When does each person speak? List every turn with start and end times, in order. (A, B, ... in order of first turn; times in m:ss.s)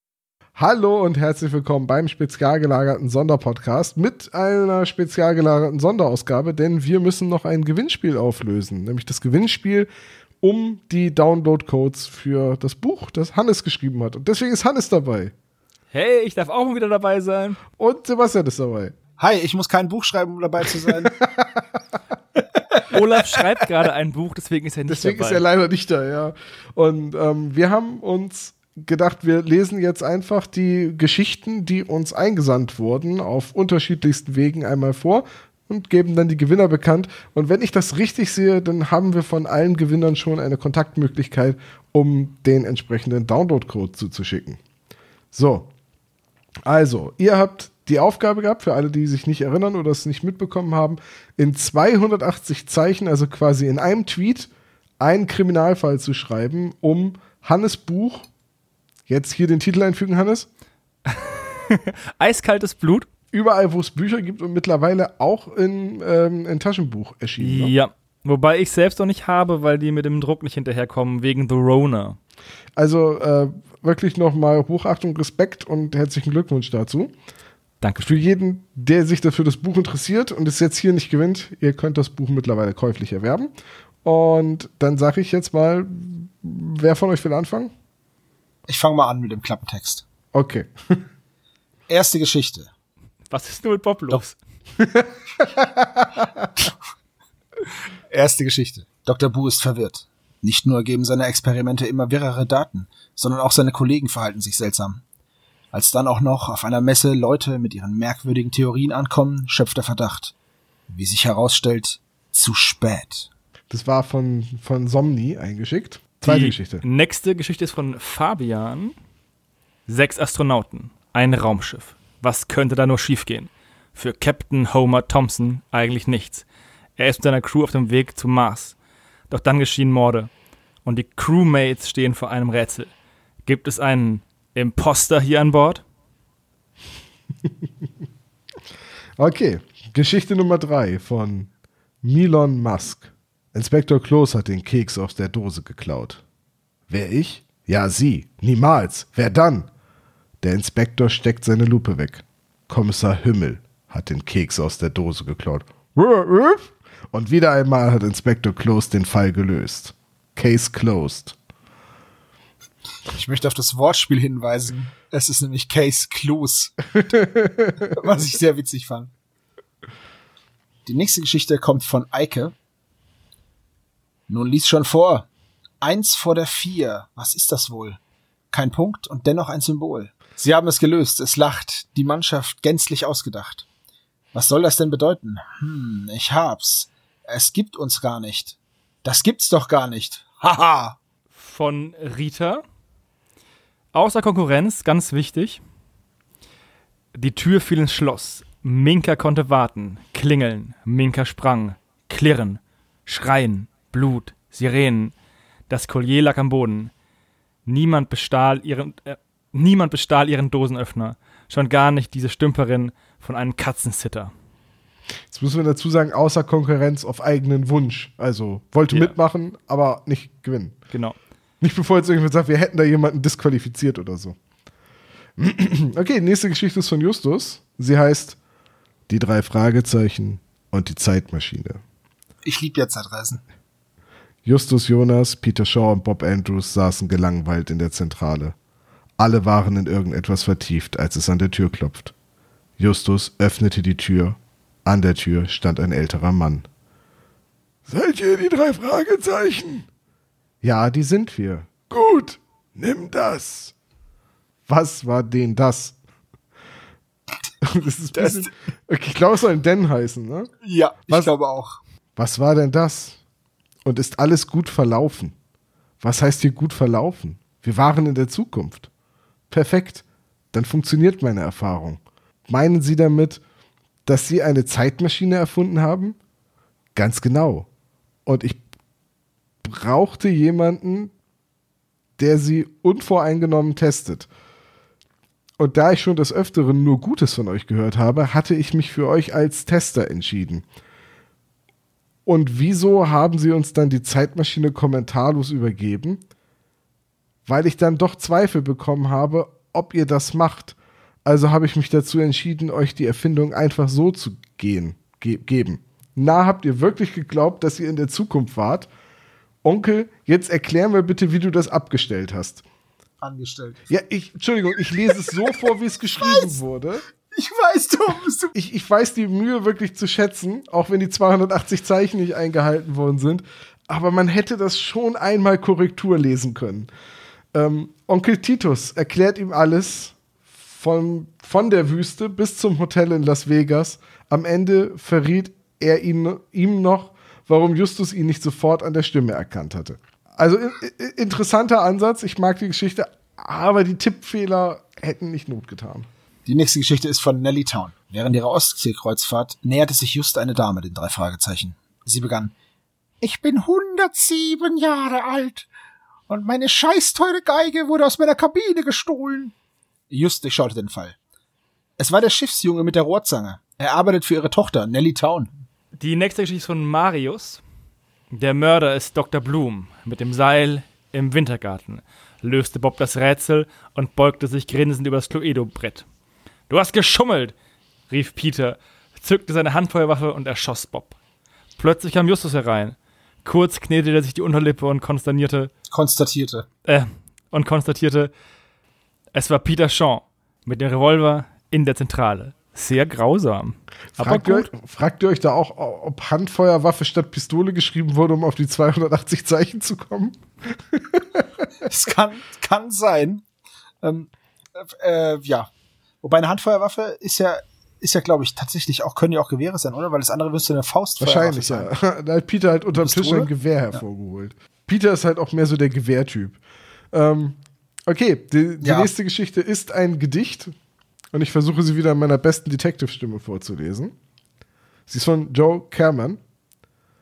0:00.6-0:09.9 A
0:10.4-0:15.3 A
0:15.9-0:17.6 B
0:17.8-0:19.0 A
0:19.2-0:21.2 C
0:20.9-0:21.6 A
0:22.9-0:25.4 B
0:24.9-0:44.6 A
0:45.3-0:45.7 A
0:46.7-0:58.3 A
0:59.1-1:00.5 A
1:01.1-1:03.1 B
1:03.3-1:07.7 A
1:07.4-1:12.2 B
1:12.8-1:17.1 A
1:17.8-1:18.1 B
1:18.0-1:23.5 A
1:24.0-1:27.7 A
1:28.7-1:30.0 C
1:30.3-1:31.0 A
1:31.9-1:32.7 C
1:33.3-1:34.4 B
1:34.8-1:36.2 A
1:38.1-1:45.0 C
1:45.7-1:50.3 C
1:50.9-1:53.3 C
1:53.7-1:56.8 A
1:56.2-1:58.9 B
1:59.9-2:06.5 B
2:07.0-2:08.8 B
2:09.3-2:10.3 B
2:10.8-2:12.9 B
2:13.5-2:15.8 B
2:19.2-2:21.5 A
2:22.0-2:26.2 A
2:26.9-2:29.7 A
2:30.4-2:41.4 A
2:43.1-2:46.8 C
2:47.0-2:47.8 A
2:47.9-2:49.1 C
2:50.9-2:52.5 C
2:54.3-2:55.3 C
2:55.8-2:58.0 C
2:58.5-3:03.7 C
3:04.3-3:11.0 C
3:11.4-3:12.6 B
3:13.9-3:15.6 B
3:17.2-3:25.1 B
3:25.7-3:26.9 B
3:27.7-3:34.3 B
3:35.3-3:40.8 A
3:40.9-3:41.2 B
3:41.6-3:44.4 A
3:45.4-3:48.4 A
3:49.1-3:51.8 A
3:52.4-3:53.4 C
3:54.4-3:58.6 A
3:59.2-4:02.1 A
4:02.8-4:06.7 A
4:07.9-4:09.9 A
4:10.6-4:13.7 A
4:14.7-4:16.0 A
4:17.6-4:20.5 A
4:18.2-4:18.5 C
4:20.6-4:21.8 C
4:22.2-4:23.2 A
4:23.8-4:25.4 A
4:26.0-4:28.9 A
4:29.5-4:33.4 A
4:34.1-4:36.2 A
4:37.0-4:37.7 A
4:38.3-4:38.6 A
4:39.6-4:41.1 A
4:42.2-4:44.3 A
4:45.6-4:50.6 A
4:52.3-4:56.2 A
4:57.5-5:08.9 A
5:09.6-5:12.6 A
5:13.2-5:13.8 C
5:13.9-5:17.0 A
5:16.2-5:16.6 C
5:17.3-5:18.5 C
5:18.5-5:26.9 A
5:27.5-5:46.1 A
5:46.5-5:52.5 C
5:53.2-5:55.7 C
5:56.3-5:59.5 C
6:00.1-6:01.2 C
6:02.0-6:05.6 C
6:06.0-6:07.6 B
6:08.3-6:16.1 B
6:16.7-6:17.6 B
6:18.1-6:21.2 B
6:21.8-6:25.7 B
6:25.9-6:26.7 C
6:26.8-6:28.3 B
6:29.3-6:34.7 B
6:34.2-6:40.4 A
6:40.9-6:41.5 A
6:41.8-6:43.4 C
6:44.0-6:45.7 C
6:46.2-6:51.9 C
6:51.2-6:56.6 A
6:53.0-6:54.0 C
6:57.1-7:00.7 A
6:58.8-6:59.1 C
7:01.3-7:04.1 A
7:05.1-7:06.4 A